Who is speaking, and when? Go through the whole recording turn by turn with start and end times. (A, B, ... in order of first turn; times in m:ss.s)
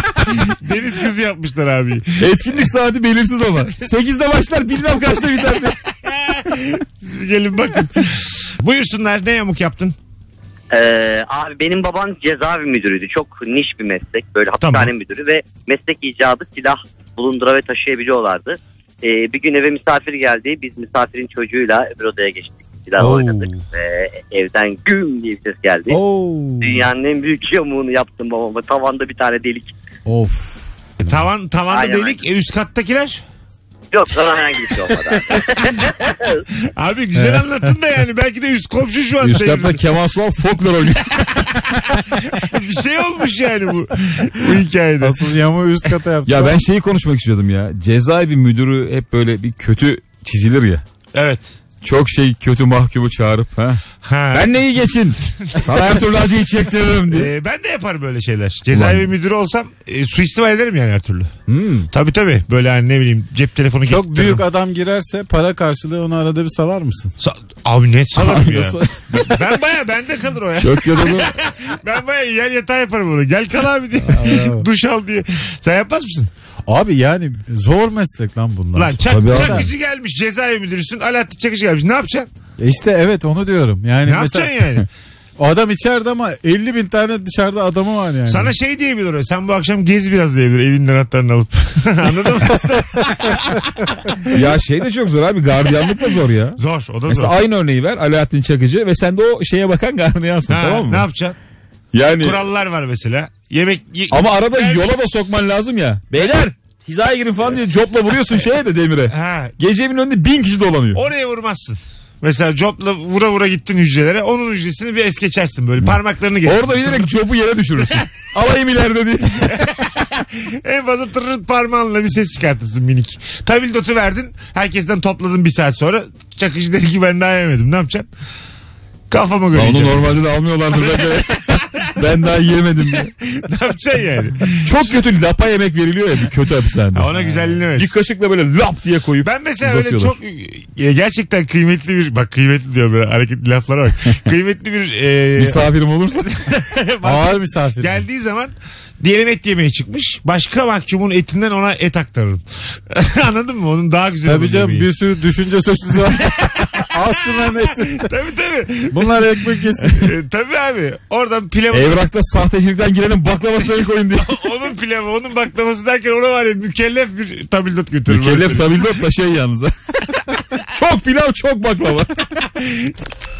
0:00.4-0:02.3 A
0:02.2-0:05.8 B
0:06.1-0:10.0 A
0:10.7-0:26.0 C
0:14.6-0:14.9 A
0:23.0-0:23.6 D
0:25.9-0:26.9 D
0:26.6-0:29.7 C
0:30.0-0:31.3 D
0:31.0-0:33.2 A
0:31.7-0:32.2 C
0:33.9-0:36.4 C
0:36.7-0:39.8 A
0:37.2-0:37.4 D
0:39.2-0:41.2 B
0:41.9-0:45.2 A
0:45.0-0:46.6 D
0:46.2-0:50.8 B
0:51.1-0:51.5 A
0:51.8-0:57.3 B
0:54.0-0:54.5 A
0:55.4-0:55.7 A
0:57.1-1:01.3 A
0:58.7-0:59.1 B
1:01.5-1:01.9 D
1:01.9-1:04.4 A
1:03.8-1:07.1 D
1:07.2-1:16.3 A
1:08.1-1:09.6 B
1:10.6-1:11.4 B
1:14.0-1:14.6 D
1:16.6-1:19.7 D
1:18.7-1:22.3 A
1:19.1-1:19.7 B
1:22.6-1:24.7 D
1:24.0-1:24.9 A
1:25.4-1:28.5 D
1:28.2-1:33.6 A
1:34.3-1:41.0 B
1:36.6-1:37.3 A
1:40.5-1:41.4 A
1:41.9-1:42.4 B
1:42.2-1:44.9 A
1:44.1-1:51.0 B
1:49.1-1:49.5 A
1:50.9-1:57.1 A
1:55.8-1:59.7 B
1:59.4-2:08.1 A
2:09.1-2:10.2 A
2:09.5-2:13.1 B
2:10.8-2:11.9 A
2:13.3-2:15.0 A
2:14.6-2:17.1 B
2:16.9-2:18.0 A
2:17.1-2:17.4 D
2:17.7-2:20.2 B
2:19.2-2:25.6 A
2:25.4-2:26.3 B
2:26.2-2:34.9 A
2:27.0-2:28.0 D
2:34.2-2:38.1 D
2:36.4-2:36.8 A
2:38.0-2:39.2 A
2:38.9-2:40.1 D
2:39.9-2:42.0 A
2:41.7-2:44.4 B
2:44.2-2:48.8 A
2:48.1-2:52.1 B
2:52.6-2:52.9 A